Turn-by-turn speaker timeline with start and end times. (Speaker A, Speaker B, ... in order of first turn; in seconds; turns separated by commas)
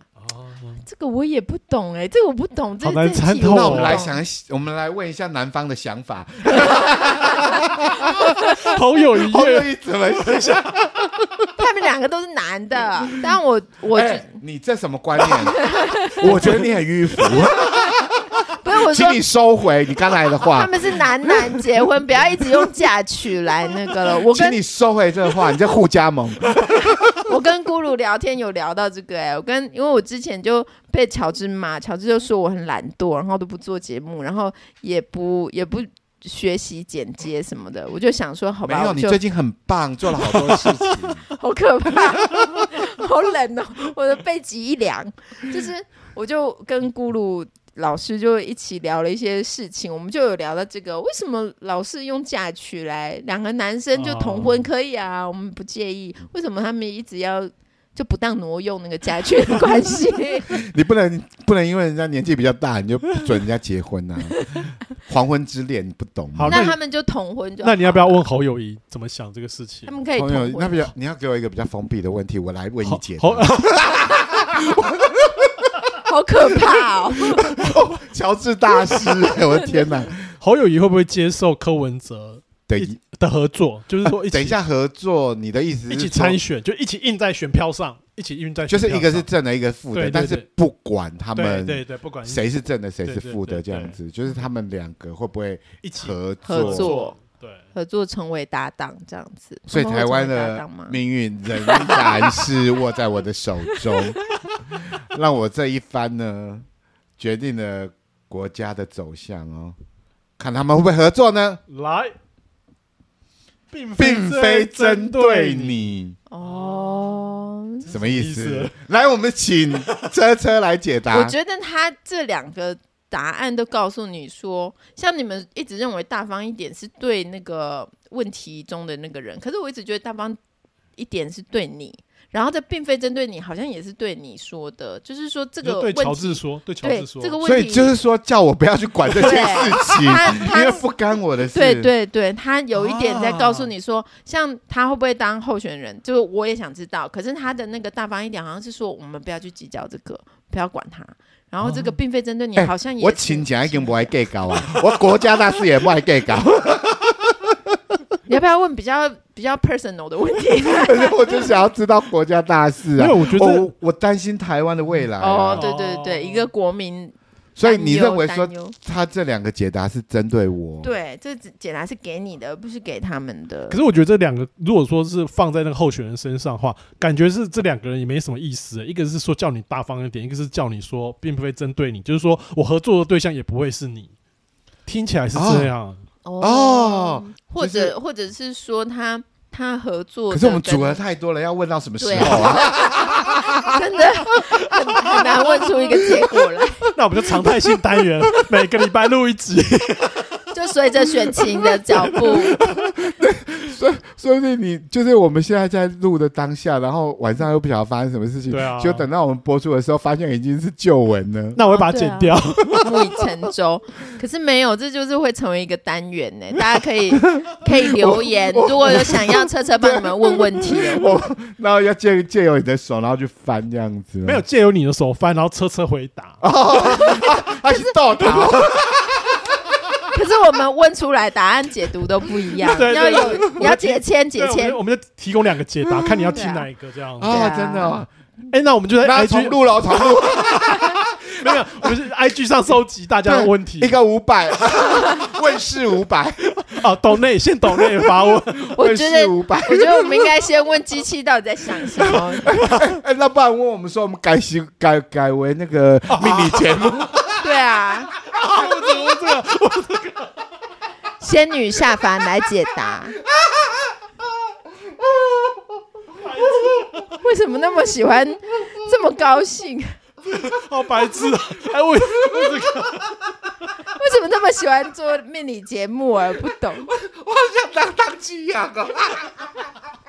Speaker A: 0.2-0.8, Speaker B: 0.8-4.2, Speaker A: 2.8-4.0, Speaker C: 3.4-8.3, Speaker A: 8.4-10.8, Speaker C: 9.1-11.3, Speaker B: 11.6-14.3, Speaker C: 13.9-21.6, Speaker B: 15.5-16.3, Speaker A: 16.2-16.7, Speaker B: 18.5-19.2, Speaker B: 20.4-24.6, Speaker C: 24.2-27.0, Speaker B: 26.8-39.2, Speaker C: 38.6-41.2, Speaker B: 41.3-60.6, Speaker A: 53.9-54.6, Speaker C: 60.5-66.6, Speaker A: 66.3-66.8, Speaker B: 66.5-68.2, Speaker A: 67.6-69.9, Speaker B: 69.8-70.9, Speaker C: 70.2-75.9, Speaker A: 72.8-73.9, Speaker B: 76.0-77.5, Speaker C: 77.2-80.3, Speaker A: 80.4-84.6, Speaker C: 82.7-83.0, Speaker C: 84.0-86.4, Speaker A: 85.9-89.3, Speaker C: 88.7-97.0, Speaker A: 89.9-90.5, Speaker A: 91.3-92.5, Speaker A: 93.0-94.0, Speaker A: 95.8-97.6, Speaker B: 96.4-97.2, Speaker B: 97.7-101.0, Speaker C: 99.7-104.2, Speaker B: 101.6-102.5, Speaker C: 104.7-106.6, Speaker C: 107.2-109.8, Speaker C: 110.4-111.6, Speaker A: 111.7-112.1, Speaker A: 113.7-115.9, Speaker C: 114.0-116.2, Speaker B: 116.3-117.9, Speaker A: 116.4-117.2, Speaker A: 117.8-118.7, Speaker C: 117.9-121.3, Speaker B: 121.1-130.4, Speaker B: 131.0-137.9, Speaker A: 135.6-137.4, Speaker C: 137.4-141.9, Speaker B: 139.1-140.8, Speaker B: 141.5-154.2, Speaker A: 142.8-143.7, Speaker A: 151.6-151.9, Speaker C: 152.6-157.5, Speaker B: 158.3-161.5, Speaker C: 160.7-165.6, Speaker A: 162.9-163.7, Speaker B: 165.2-168.7, Speaker A: 165.5-166.5, Speaker C: 167.6-170.9, Speaker B: 170.8-173.8, Speaker A: 173.7-184.1, Speaker A: 184.8-186.0, Speaker C: 185.3-185.7, Speaker B: 186.2-191.0, Speaker C: 186.4-187.9, Speaker C: 190.3-193.8, Speaker B: 192.0-196.9, Speaker C: 194.3-196.6, Speaker A: 196.9-200.3, Speaker B: 200.5-202.6, Speaker C: 202.6-211.6, Speaker A: 208.5-209.1, Speaker A: 211.5-213.0, Speaker B: 211.7-221.1, Speaker C: 217.4-224.4, Speaker A: 224.2-226.4, Speaker C: 226.4-230.0, Speaker B: 226.8-228.5, Speaker B: 230.1-234.8, Speaker A: 232.7-237.5, Speaker C: 235.8-236.4, Speaker B: 236.3-236.7, Speaker C: 237.2-238.1, Speaker B: 237.2-238.0, Speaker A: 238.5-240.8, Speaker C: 239.0-241.9, Speaker A: 241.4-243.9, Speaker C: 243.2-246.6, Speaker A: 246.6-248.7, Speaker C: 247.7-250.3, Speaker B: 248.7-252.5, Speaker C: 252.0-257.3, Speaker A: 256.1-257.2, Speaker B: 257.4-258.1, Speaker A: 258.2-260.3, Speaker B: 261.2-263.1, Speaker C: 265.0-265.6, Speaker A: 266.3-267.1, Speaker B: 267.2-269.9, Speaker A: 270.3-273.3, Speaker C: 272.2-272.6, Speaker B: 273.9-276.9, Speaker C: 276.9-279.7